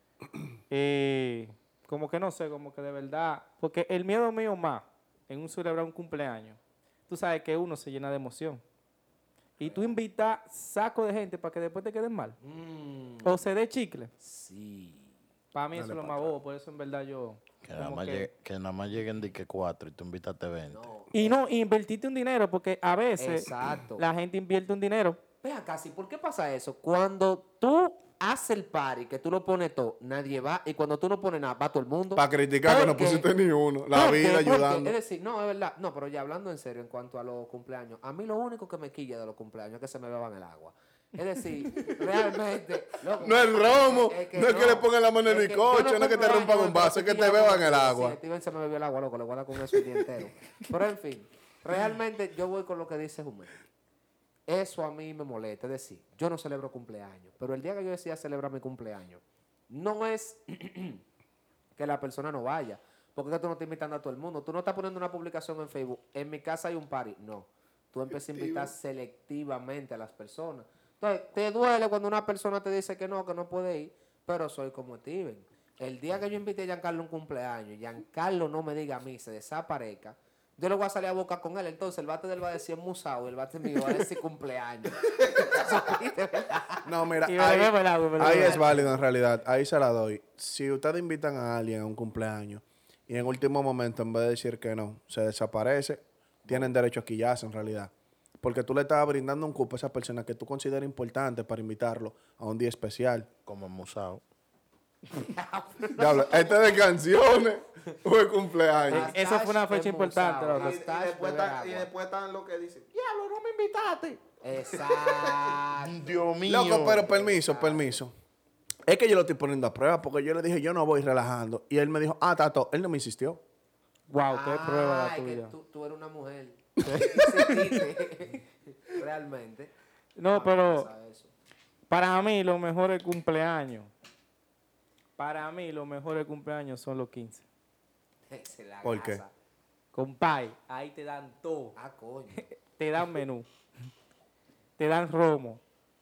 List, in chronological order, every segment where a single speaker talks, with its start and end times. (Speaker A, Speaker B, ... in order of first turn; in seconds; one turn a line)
Speaker A: 0.7-8.6
Speaker A: 9.6-12.4
Speaker B: 9.6-9.9
Speaker B: 12.4-13.4
Speaker A: 13.2-14.1
Speaker B: 14.2-15.1
Speaker A: 15.5-18.3
Speaker C: 15.7-16.3
Speaker D: 17.6-20.9
Speaker B: 20.7-21.3
Speaker A: 21.1-25.2
Speaker B: 23.2-24.0
Speaker B: 25.4-33.3
Speaker C: 32.1-34.9
Speaker B: 33.9-53.6
Speaker C: 43.2-48.2
Speaker B: 54.5-61.0
Speaker B: 61.8-86.9
Speaker C: 86.8-103.3
Speaker A: 87.2-88.8
Speaker B: 88.3-88.8
Speaker D: 103.5-104.2
Speaker B: 105.1-106.6
Speaker C: 106.0-109.1
Speaker B: 108.9-111.9
Speaker A: 108.9-110.8
Speaker E: 110.5-115.6
Speaker B: 114.4-116.2
Speaker D: 115.8-117.1
Speaker C: 116.5-118.1
Speaker B: 116.9-118.0
Speaker C: 118.9-123.4
Speaker A: 124.1-125.5
Speaker B: 124.3-129.7
Speaker A: 126.8-127.8
Speaker A: 130.2-130.9
Speaker B: 130.3-131.3
Speaker A: 131.9-133.9
Speaker A: 135.2-137.4
Speaker B: 138.3-139.3
Speaker C: 138.8-139.2
Speaker A: 139.9-141.8
Speaker B: 141.8-142.4
Speaker A: 142.3-143.5
Speaker A: 144.8-145.6